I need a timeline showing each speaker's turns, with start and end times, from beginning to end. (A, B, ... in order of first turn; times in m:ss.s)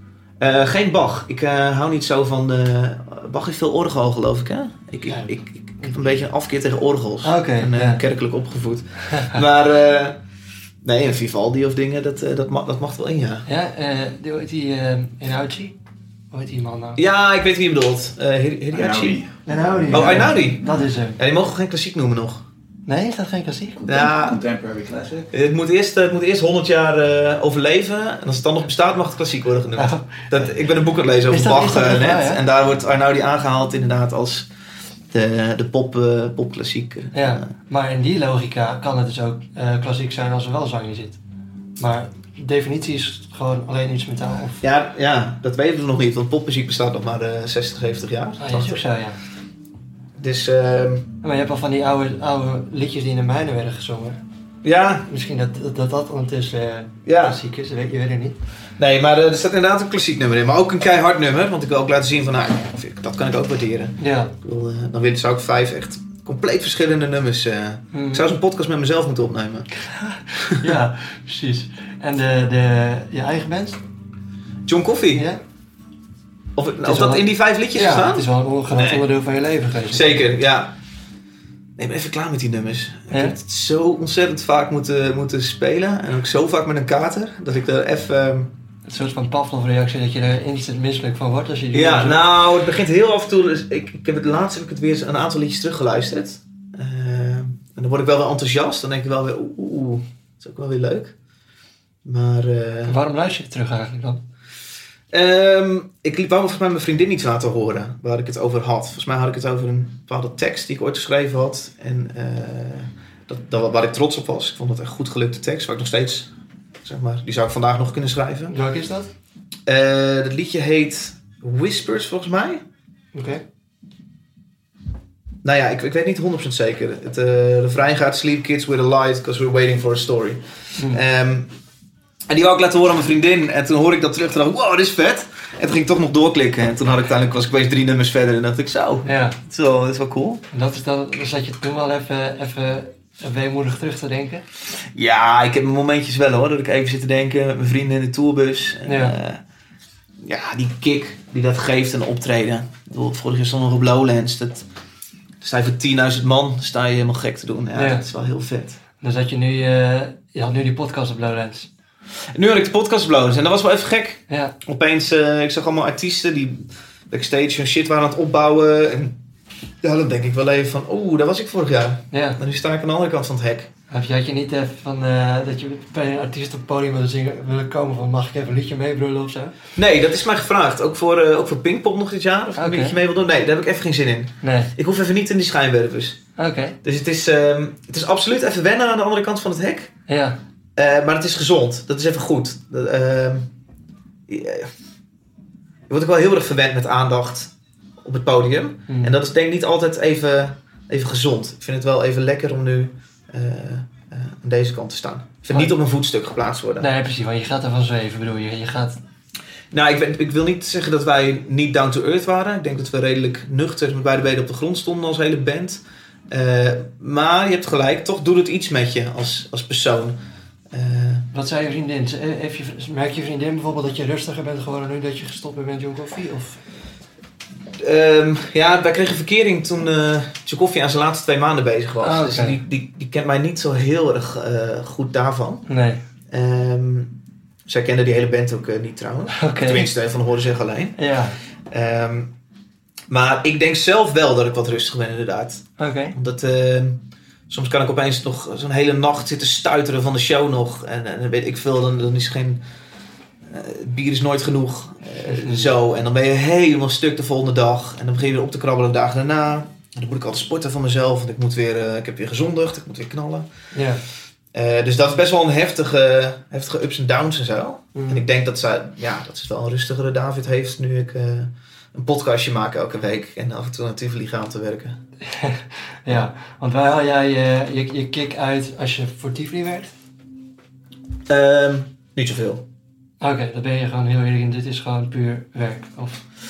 0:00.4-0:10.2 A
0:05.1-0:06.0 B
0:07.2-0:08.0 B
0:10.8-0:13.5 A
0:13.4-0:15.7 B
0:16.3-0:17.0 B
0:17.0-0:19.2 A
0:18.7-0:20.2 C
0:19.4-0:21.2 B
0:19.9-0:20.6 A
0:21.2-0:22.4 A
0:22.8-0:23.8 B
0:23.8-0:24.4 A
0:23.9-0:25.3 C
0:25.3-0:34.5 A
0:29.8-0:30.3 B
0:31.3-0:32.4 B
0:35.1-0:37.5 A
0:37.1-0:41.2 B
0:41.8-0:44.6 B
0:44.6-0:48.8 A
0:48.4-0:49.2 B
0:50.2-0:51.1 A
0:51.2-0:54.2 B
0:54.6-0:55.1 A
0:55.1-0:58.4 B
0:57.0-0:57.4 A
0:58.8-1:09.7 A
1:04.0-1:04.3 B
1:07.9-1:08.2 B
1:09.8-1:13.8 B
1:14.6-1:15.3 A
1:15.1-1:15.4 B
1:16.6-1:19.0 A
1:16.8-1:20.1 B
1:19.9-1:20.7 A
1:21.8-1:28.5 A
1:23.1-1:23.3 B
1:28.8-1:32.2 B
1:31.7-1:41.1 A
1:42.0-1:43.0 A
1:42.8-1:44.2 B
1:45.1-1:56.3 A
1:56.8-1:58.5 A
1:58.5-1:59.1 B
1:59.6-2:02.6 A
2:03.1-2:03.4 B
2:05.4-2:11.5 A
2:10.8-2:11.0 B
2:12.3-2:20.4 A
2:19.0-2:19.4 B
2:20.5-2:24.4 B
2:24.9-2:29.4 A
2:28.8-2:29.2 B
2:30.2-2:34.6 A
2:35.4-2:38.8 A
2:37.7-2:38.0 B
2:39.0-2:41.7 B
2:42.3-2:49.2 A
2:44.3-2:44.5 B
2:49.8-2:53.7 A
2:52.1-2:52.4 B
2:53.9-2:59.6 B
2:59.8-3:06.2 A
3:02.6-3:03.0 B
3:04.4-3:04.7 B
3:06.4-3:06.8 B
3:06.8-3:09.9 A
3:10.1-3:10.4 B
3:10.8-3:13.5 A
3:14.3-3:14.7 A
3:15.9-3:17.5 A
3:18.0-3:26.9 A
3:18.9-3:19.2 B
3:26.8-3:29.0 B
3:29.7-3:40.2 A
3:40.7-3:41.3 A
3:41.3-3:46.6 B
3:47.8-3:55.6 A
3:52.0-3:52.6 B
3:55.7-3:56.0 B
3:56.3-3:57.1 A
3:57.7-4:01.0 A
3:59.3-3:59.9 B
4:01.0-4:01.4 B
4:01.7-4:02.3 A
4:03.1-4:12.6 A
4:05.8-4:06.1 B
4:13.4-4:23.5 A
4:15.2-4:15.7 B
4:23.7-4:24.0 B
4:24.5-4:35.0 A
4:27.9-4:28.2 B
4:35.2-4:39.9 B
4:41.3-4:42.6 A
4:43.2-4:46.2 B